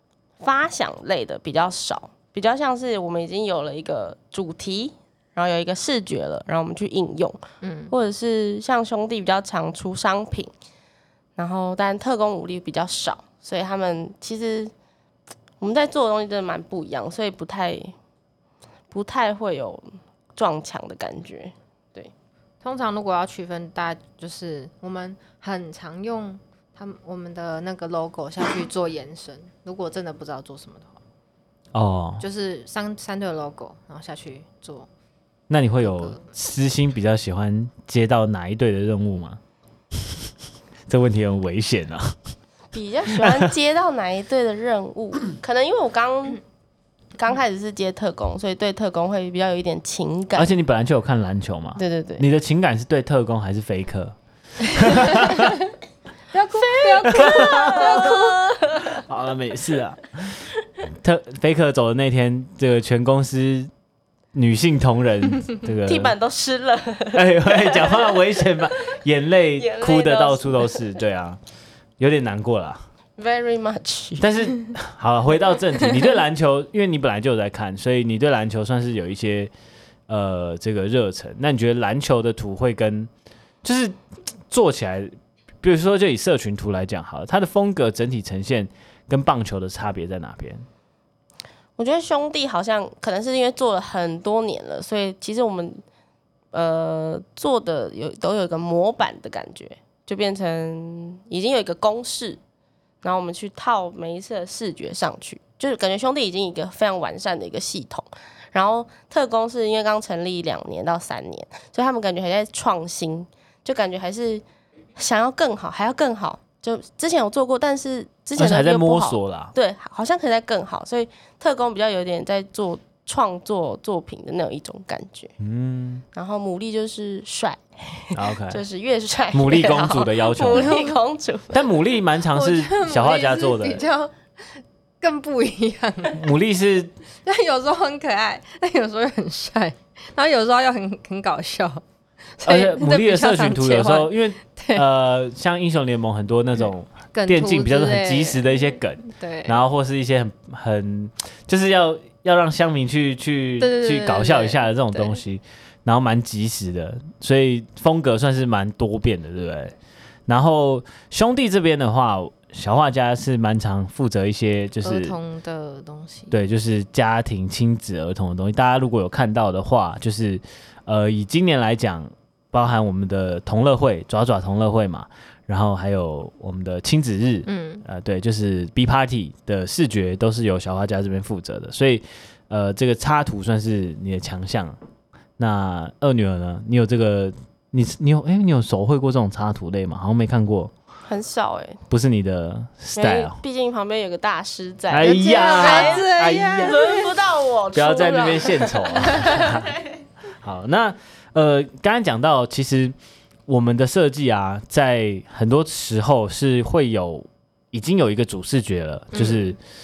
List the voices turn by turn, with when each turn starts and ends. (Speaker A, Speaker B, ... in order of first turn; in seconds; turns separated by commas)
Speaker A: 0.4-10.5, Speaker B: 7.6-7.9, Speaker A: 11.4-14.7, Speaker A: 15.6-17.9, Speaker A: 18.9-22.1, Speaker B: 22.6-31.0, Speaker C: 31.7-32.2, Speaker B: 32.2-34.9, Speaker C: 35.5-39.4, Speaker B: 35.8-36.3, Speaker C: 40.9-42.2, Speaker A: 42.7-46.4, Speaker C: 43.1-43.5, Speaker A: 47.1-50.5, Speaker C: 50.4-54.1, Speaker A: 51.8-52.2, Speaker C: 54.7-55.6, Speaker B: 55.1-55.5, Speaker B: 56.3-58.3, Speaker A: 56.5-59.0, Speaker C: 57.0-58.2, Speaker C: 59.0-63.7, Speaker C: 64.3-66.1, Speaker A: 65.8-68.4, Speaker C: 67.1-71.4, Speaker A: 69.6-70.9, Speaker C: 72.0-72.8, Speaker A: 73.2-74.2, Speaker C: 74.2-79.5, Speaker C: 80.1-83.1, Speaker C: 83.6-84.0, Speaker C: 84.5-90.6, Speaker A: 91.8-95.8, Speaker A: 96.5-102.4, Speaker A: 103.0-114.4, Speaker A: 115.0-125.3, Speaker C: 118.4-119.5, Speaker C: 125.4-126.0, Speaker A: 126.1-131.7, Speaker C: 128.1-128.6, Speaker C: 129.3-130.7, Speaker B: 130.5-131.0, Speaker C: 131.5-133.8, Speaker B: 132.3-134.1, Speaker B: 135.0-136.2, Speaker C: 136.1-136.9, Speaker B: 137.2-141.8, Speaker B: 142.4-144.8, Speaker C: 142.4-159.7, Speaker B: 147.1-149.6, Speaker B: 153.6-155.1, Speaker C: 160.3-165.2, Speaker B: 164.8-166.3, Speaker C: 166.3-184.8, Speaker B: 177.4-177.8, Speaker C: 185.4-190.7, Speaker A: 191.1-191.8, Speaker C: 191.9-193.4, Speaker A: 193.0-199.9, Speaker C: 194.9-196.9, Speaker B: 195.0-197.1, Speaker C: 197.7-199.7, Speaker B: 199.1-199.4, Speaker C: 200.4-202.9, Speaker C: 203.5-209.6, Speaker B: 209.1-209.5